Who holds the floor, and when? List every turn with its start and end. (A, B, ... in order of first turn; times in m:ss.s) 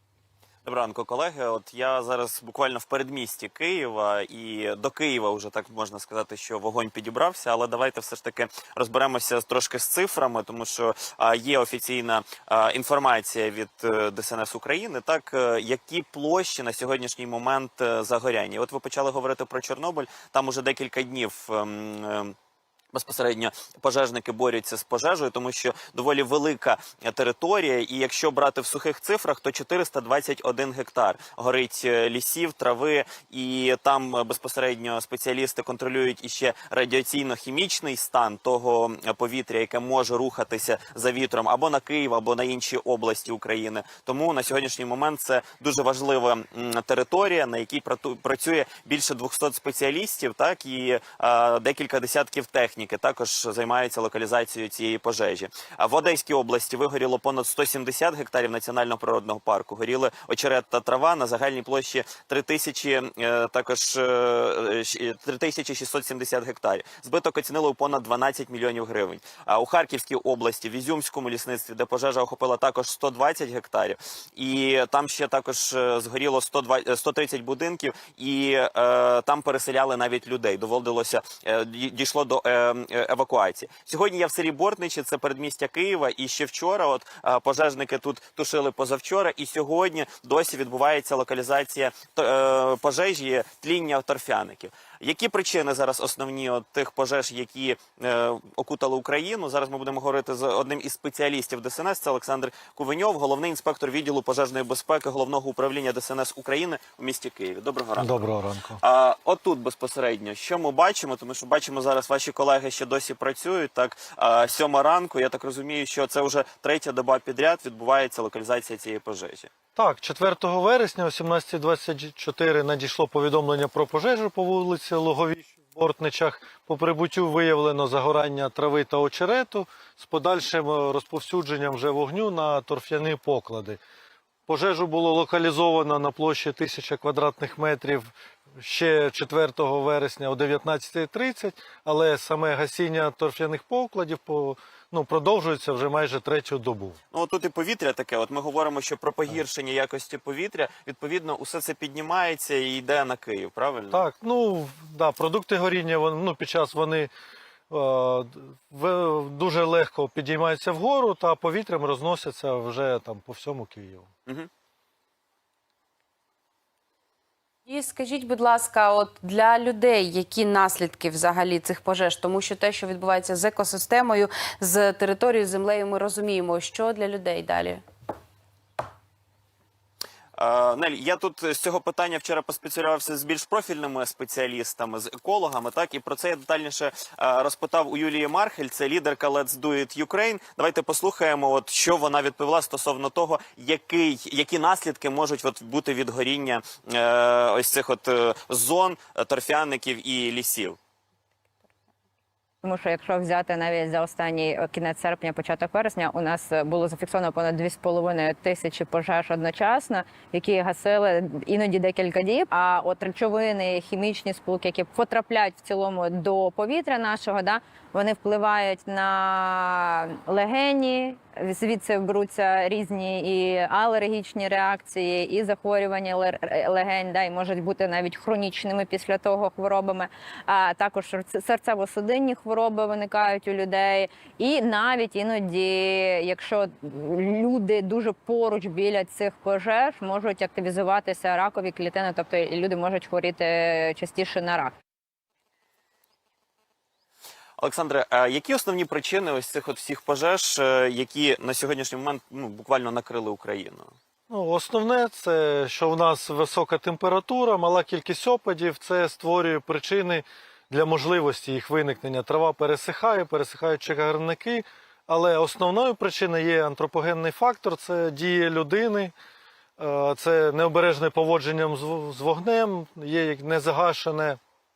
0:00.6-0:22.4 A
0:22.9-1:48.2 A
1:48.0-1:48.8 B
1:48.8-1:59.5 A
1:59.8-2:13.8 B
2:14.5-2:27.0 B
2:27.1-2:34.1 A
2:33.9-2:37.1 B
2:37.7-2:44.1 B
2:47.7-2:57.8 C
3:00.4-3:20.8 A
3:22.6-4:04.7 D
4:07.6-4:13.9 A
4:14.3-4:29.1 B
4:29.8-4:34.4 B